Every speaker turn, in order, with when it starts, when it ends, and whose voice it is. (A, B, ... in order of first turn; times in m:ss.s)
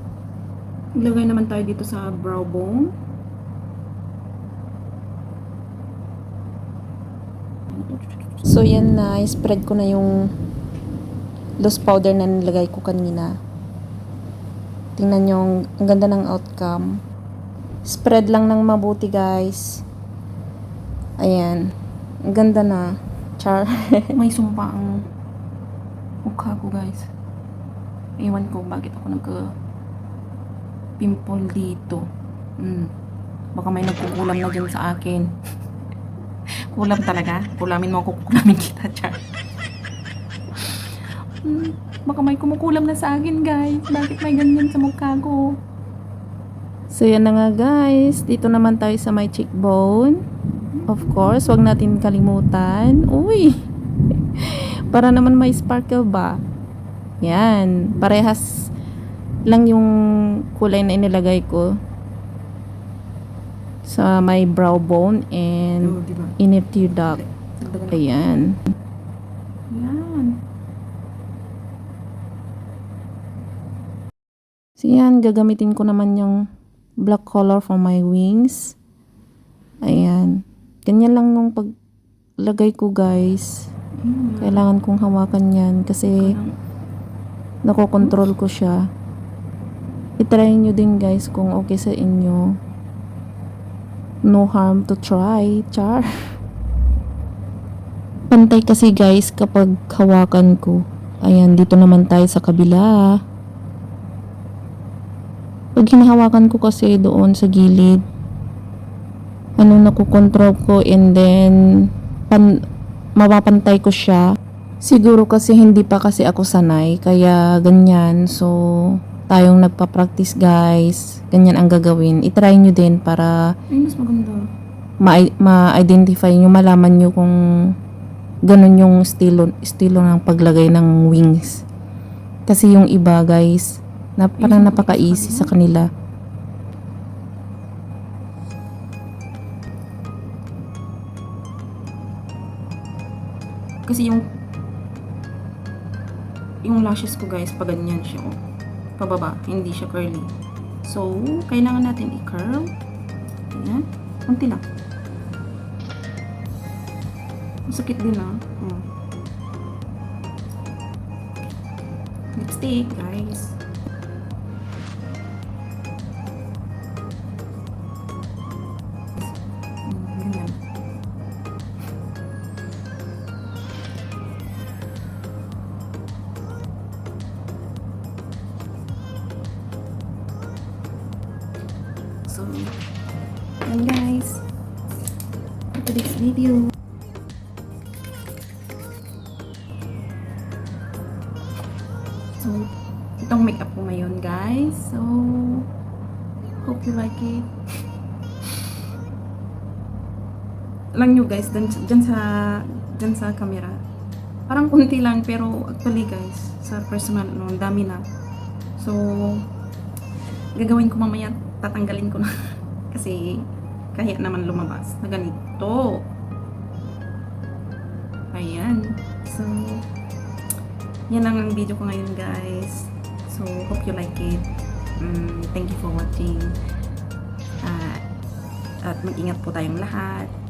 0:01.0-0:02.9 A
0:07.7-0:08.5 A
0:08.5-0:10.2 B
0:11.6-0:13.3 B
0:15.0-0:16.9 B
0:17.8-0:19.8 B
0:21.2-0:21.7 B
0:22.2-0:24.1 B
0:24.1-0:24.9 A
0:26.2-0:27.1 A
0:28.2-0:29.4 A
0:31.0-0:32.0 A
0:32.6-0:32.9 A
0:33.6-0:35.3 A
0:36.7-0:39.2 A
0:41.4-0:45.6 A
0:46.9-0:50.2 B
0:50.9-0:53.6 B
0:54.4-0:56.4 B
0:57.2-0:58.7 B
0:59.5-0:59.9 B
1:00.5-1:01.7 B
1:03.8-1:07.2 B
1:05.8-1:06.4 A
1:06.9-1:08.0 A
1:07.9-1:08.6 B
1:09.7-1:10.4 A
1:14.8-1:16.4 B
1:17.0-1:18.8 B
1:19.8-1:21.7 B
1:22.4-1:23.7 B
1:24.0-1:24.6 A
1:24.4-1:26.3 B
1:26.1-1:26.5 A
1:27.6-1:28.9 B
1:28.0-1:28.3 A
1:30.2-1:32.6 B
1:34.2-1:36.1 B
1:38.3-1:43.2 B
1:45.7-1:48.0 B
1:49.6-1:52.6 B
1:53.2-1:54.3 B
1:54.8-2:03.5 B
2:03.7-2:04.5 A
2:05.0-2:07.7 B
2:08.4-2:11.6 B
2:12.4-2:15.9 B
2:14.4-2:15.5 A
2:23.8-2:24.2 A
2:26.6-2:28.4 A
2:29.0-2:32.7 A
2:33.5-2:34.6 A
2:37.7-2:38.9 A
2:42.4-2:43.6 A
2:49.8-2:50.6 A
3:02.3-3:02.7 A
3:03.6-3:04.4 A
3:05.7-3:06.7 A
3:12.4-3:12.7 A
3:13.2-3:15.7 A
3:16.6-3:17.5 A
3:20.9-3:23.8 A
3:24.5-3:28.0 A
3:28.8-3:29.5 A
3:30.5-3:32.3 A
3:32.9-3:36.1 A
3:38.3-3:39.9 A
3:41.1-3:44.4 A
3:45.0-3:46.6 A
3:47.6-3:48.0 A
3:48.8-3:50.3 A